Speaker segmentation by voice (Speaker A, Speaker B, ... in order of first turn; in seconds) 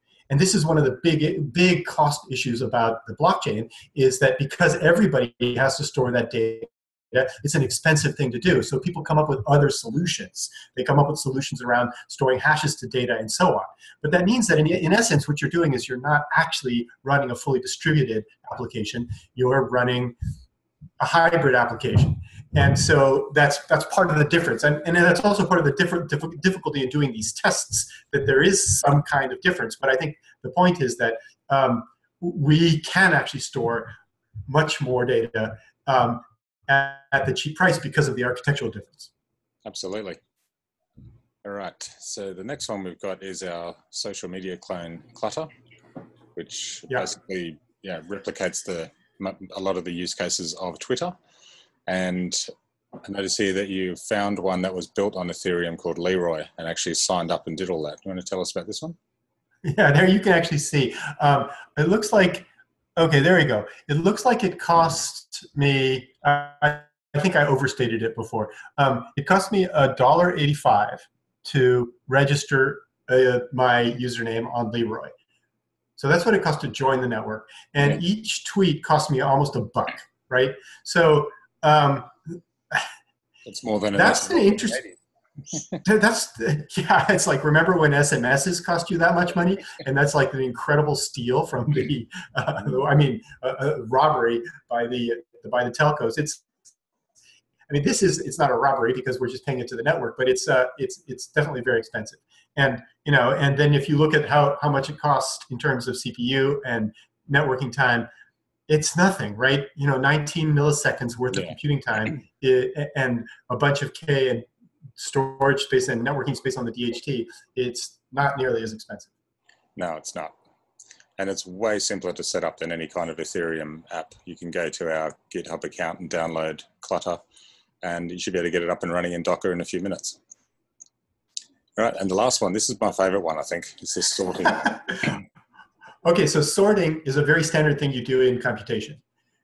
Speaker A: 0.3-20.1, 21.0-33.9, 34.5-39.1, 59.6-75.1, 76.0-82.8, 83.9-84.8, 85.8-96.4, 97.7-108.1, 108.7-114.5, 115.0-119.1, 136.0-139.0
Speaker B: 39.6-40.2, 41.4-45.5, 46.3-51.1, 51.9-52.5, 53.0-59.0, 83.5-85.0, 119.8-120.4, 121.2-127.2, 127.8-130.2, 131.8-135.2